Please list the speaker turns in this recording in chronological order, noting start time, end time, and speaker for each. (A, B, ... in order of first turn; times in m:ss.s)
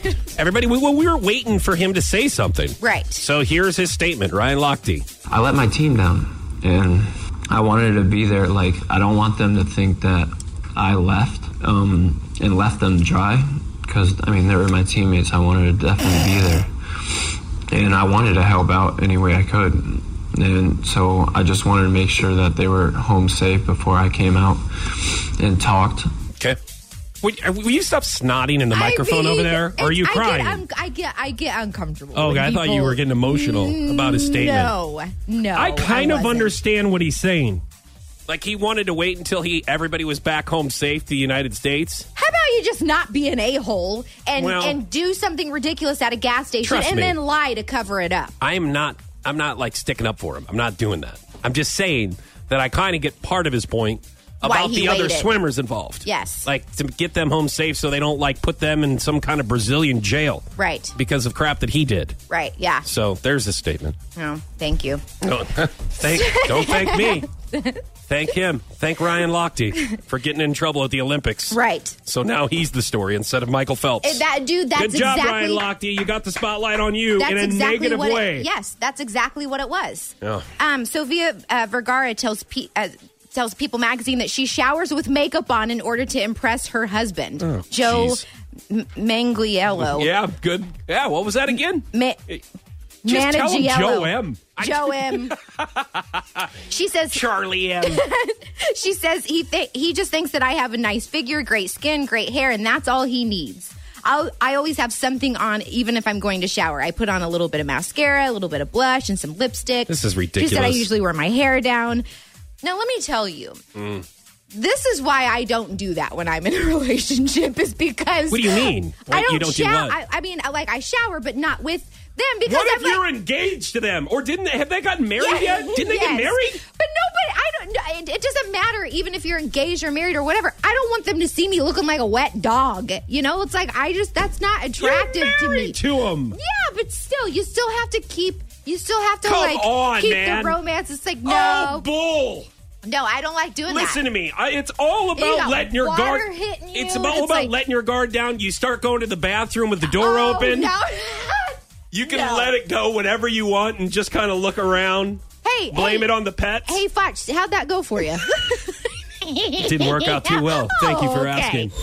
0:00.4-0:05.0 A
0:02.8-0:03.2 B
0:05.3-0:26.1 C
0:27.2-0:30.6 A
0:28.7-0:36.6 B
0:32.1-0:34.7 A
0:35.6-0:37.6 A
0:38.3-0:42.1 A
0:42.2-0:48.3 B
0:44.4-0:44.8 A
0:46.6-0:47.2 A
0:48.4-1:00.4 A
0:54.4-0:55.4 B
0:56.0-0:56.5 B
1:00.6-1:00.9 B
1:01.0-1:02.2 A
1:02.3-1:02.8 B
1:02.8-1:04.0 A
1:04.2-1:05.0 B
1:05.2-1:07.3 A
1:06.0-1:07.8 B
1:08.1-1:14.2 A
1:11.5-1:12.0 B
1:14.0-1:15.6 B
1:14.8-1:18.5 A
1:17.2-1:30.1 B
1:27.4-1:28.2 A
1:29.7-1:32.4 A
1:31.9-1:32.2 B
1:33.0-1:35.4 B
1:33.1-1:36.5 A
1:36.7-1:37.2 B
1:37.1-1:38.0 A
1:37.8-1:52.0 B
1:49.9-1:50.9 A
1:52.6-1:53.6 B
1:53.8-1:54.0 A
1:54.5-2:03.0 B
1:58.3-2:00.0 A
2:02.5-2:06.6 A
2:05.2-2:15.8 B
2:14.8-2:16.4 A
2:16.3-2:21.9 B
2:19.2-2:20.6 A
2:21.2-2:22.5 A
2:22.8-2:24.0 B
2:23.7-2:30.7 A
2:25.2-2:27.5 B
2:29.8-2:32.6 B
2:31.9-2:36.8 A
2:35.4-2:36.1 B
2:36.7-2:41.7 B
2:39.6-2:41.7 A